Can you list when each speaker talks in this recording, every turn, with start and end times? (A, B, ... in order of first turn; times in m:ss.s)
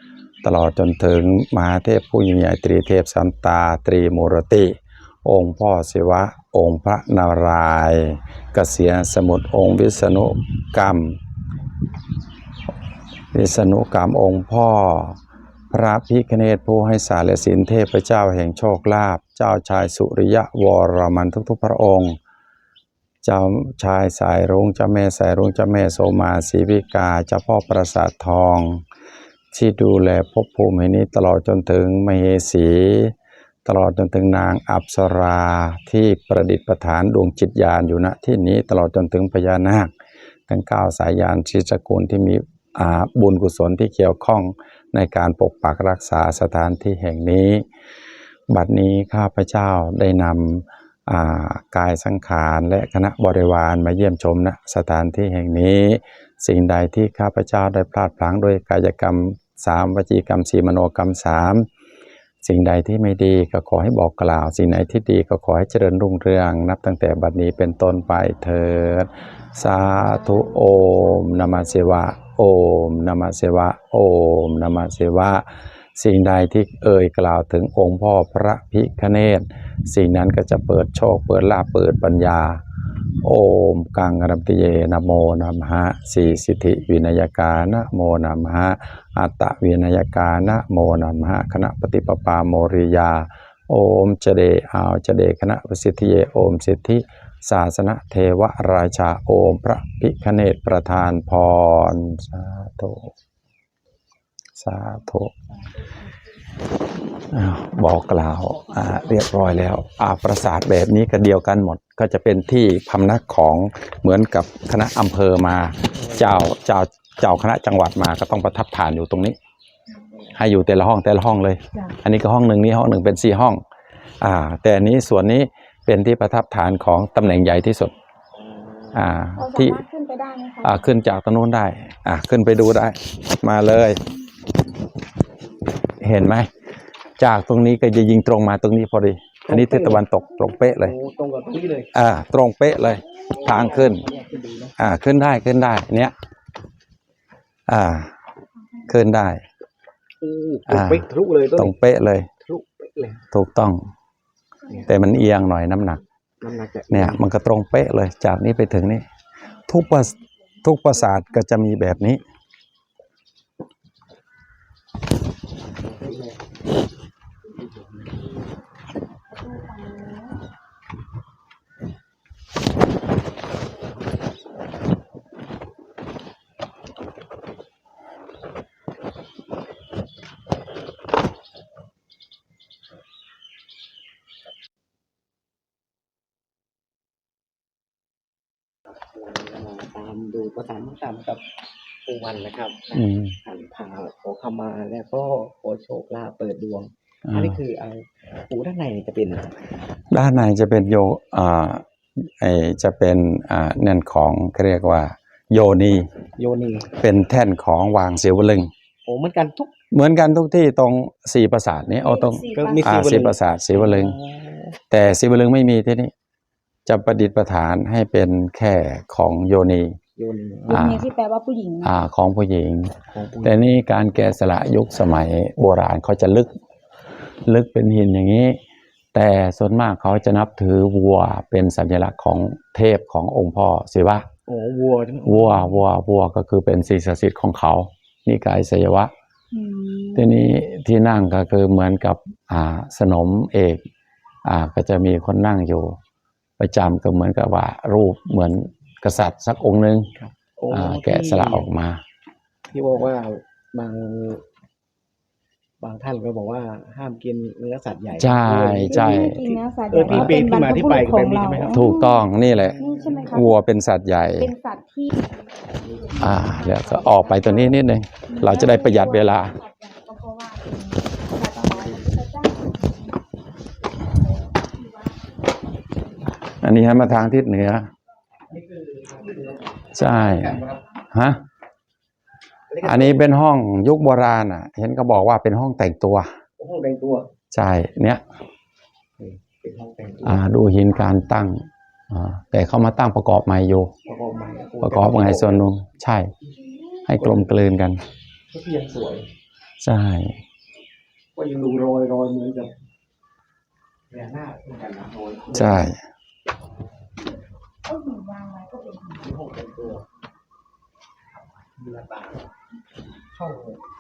0:00.4-0:11.2 A
0:13.3-0:15.2 A
0:15.7-0:22.2 A
0:23.2-0:28.8 A
0:29.5-0:33.1 A
0:33.6-0:39.9 A
0:40.5-0:47.7 A
0:48.5-1:01.7 A
1:02.4-1:22.6 A
1:10.2-1:11.6 B
1:23.2-1:43.1 A
1:44.6-1:45.3 A
1:47.3-1:59.4 A
2:00.3-2:03.6 A
2:04.2-2:07.9 A
2:08.4-2:09.0 C
2:08.9-2:09.8 A
2:09.4-2:10.8 B
2:10.6-2:14.0 A
2:16.0-2:16.5 A
2:17.2-2:21.0 A
2:19.5-2:20.0 C
2:20.8-2:21.9 C
2:21.9-2:24.0 A
2:23.3-2:24.8 C
2:24.8-2:26.1 A
2:27.7-2:28.1 A
2:28.9-2:29.4 A
2:30.2-2:31.7 C
2:30.7-2:32.3 A
2:32.4-2:33.2 C
2:33.3-2:33.8 A
2:34.8-2:36.0 A
2:36.4-2:37.2 C
2:36.9-2:39.1 A
2:39.7-2:42.2 A
2:45.8-2:46.4 C
2:47.4-2:48.2 C
2:49.3-2:50.4 B
3:09.2-3:11.4 C
3:12.0-3:19.6 C
3:13.0-3:13.4 A
3:17.3-3:17.6 A
3:20.1-3:26.1 A
3:26.4-3:26.9 C
3:26.9-3:28.7 A
3:29.0-3:29.7 C
3:29.9-3:34.2 A
3:32.0-3:33.0 B
3:32.5-3:34.8 C
3:34.9-3:36.1 A
3:36.9-3:40.0 A
3:40.2-3:41.0 C
3:40.7-3:41.9 B
3:40.7-3:41.1 A
3:41.8-3:46.5 A
3:43.1-3:43.7 C
3:47.5-3:48.6 A
3:49.1-3:54.3 A
3:54.5-3:55.8 C
3:55.2-3:59.1 A
3:59.5-4:00.3 B
4:00.2-4:03.8 A
4:04.4-4:06.0 A
4:06.6-4:10.1 A
4:10.2-4:11.7 C
4:10.7-4:12.0 A
4:12.7-4:14.4 C
4:15.8-4:23.4 C
4:18.2-4:19.5 A
4:18.7-4:22.3 B
4:20.1-4:20.4 A
4:21.7-4:24.5 A
4:22.8-4:23.6 B
4:24.4-4:25.3 B
4:25.9-4:33.0 B
4:26.0-4:26.2 C
4:26.2-4:29.6 A
4:31.6-4:32.0 C
4:34.2-4:35.2 B
4:36.6-4:37.9 A
4:38.5-4:40.8 C
4:39.9-4:41.4 A
4:42.7-4:43.3 C
4:42.8-4:46.3 A
4:46.6-4:47.3 C
4:47.5-4:48.2 A
4:49.2-4:50.5 C
4:50.2-4:53.9 A
4:54.1-4:55.7 C
4:54.8-4:56.3 A
4:57.1-4:57.5 C
4:57.1-4:58.0 A
4:58.5-4:59.3 C
4:59.8-5:00.4 A
5:01.4-5:02.7 C
5:04.1-5:05.9 C
5:05.5-5:06.0 A
5:07.9-5:09.2 B
5:09.1-5:10.1 C
5:11.8-5:12.5 C
5:13.3-5:13.8 C